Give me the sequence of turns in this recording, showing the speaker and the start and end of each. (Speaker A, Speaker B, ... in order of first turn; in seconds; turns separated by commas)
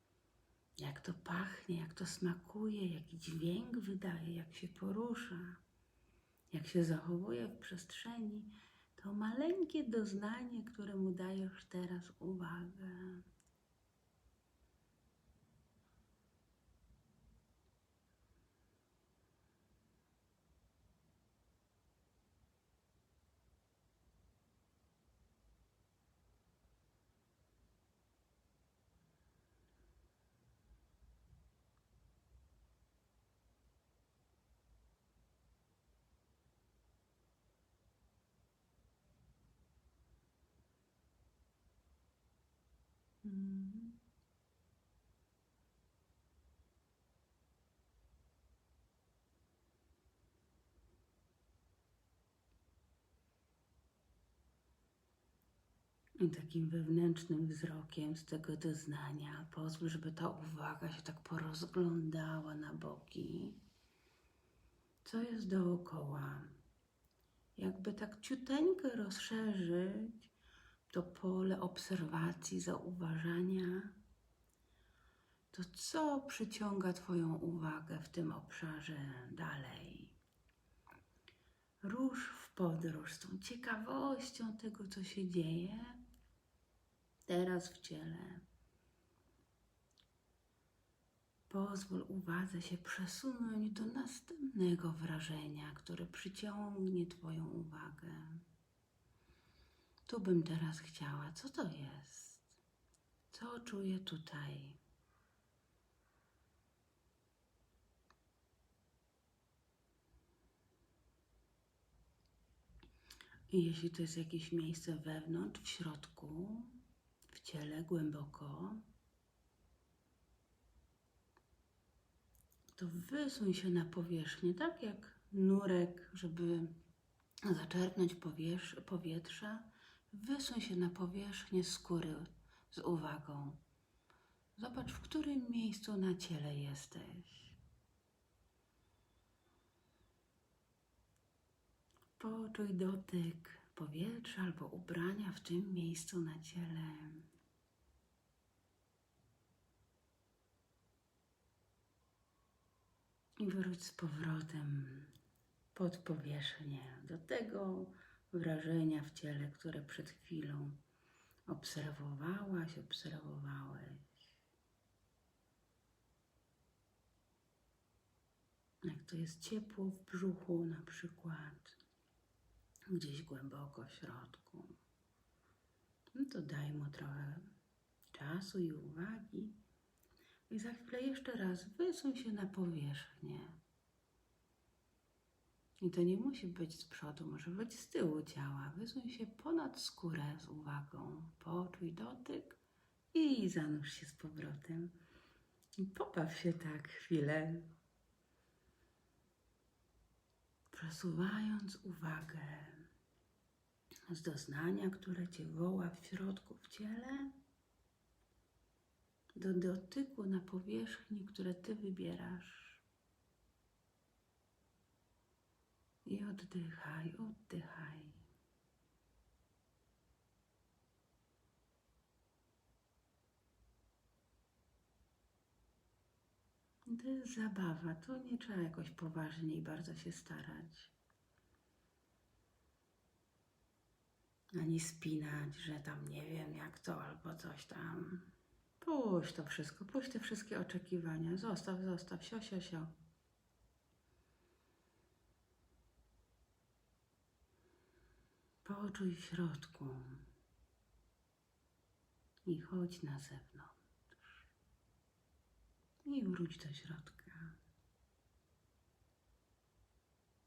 Speaker A: 0.8-5.6, Speaker A: 6.5-13.2, Speaker A: 43.2-44.0, Speaker A: 56.2-63.6, Speaker A: 65.0-66.5, Speaker A: 67.6-70.3, Speaker A: 70.9-73.9, Speaker A: 75.5-80.2, Speaker A: 81.8-86.0, Speaker A: 87.3-88.4, Speaker A: 91.5-98.4, Speaker A: 100.1-102.6, Speaker A: 103.3-104.8, Speaker A: 113.5-116.8, Speaker A: 117.3-118.9, Speaker A: 122.8-126.8, Speaker A: 127.4-133.6, Speaker A: 134.6-137.6, Speaker A: 142.2-147.3, Speaker A: 153.4-155.1, Speaker A: 155.7-160.8, Speaker A: 161.5-164.2, Speaker A: 168.8-171.8, Speaker A: 172.9-174.8, Speaker A: 176.2-177.5, Speaker A: 178.1-179.6, Speaker A: 180.5-183.6, Speaker A: 185.8-192.6, Speaker A: 193.1-194.9, Speaker A: 195.8-197.7, Speaker A: 200.7-202.9, Speaker A: 204.1-207.3, Speaker A: 209.3-212.8, Speaker A: 216.1-218.2, Speaker A: 226.9-230.9, Speaker A: 234.6-242.9, Speaker A: 248.7-250.2, Speaker A: 252.4-254.4, Speaker A: 256.1-257.6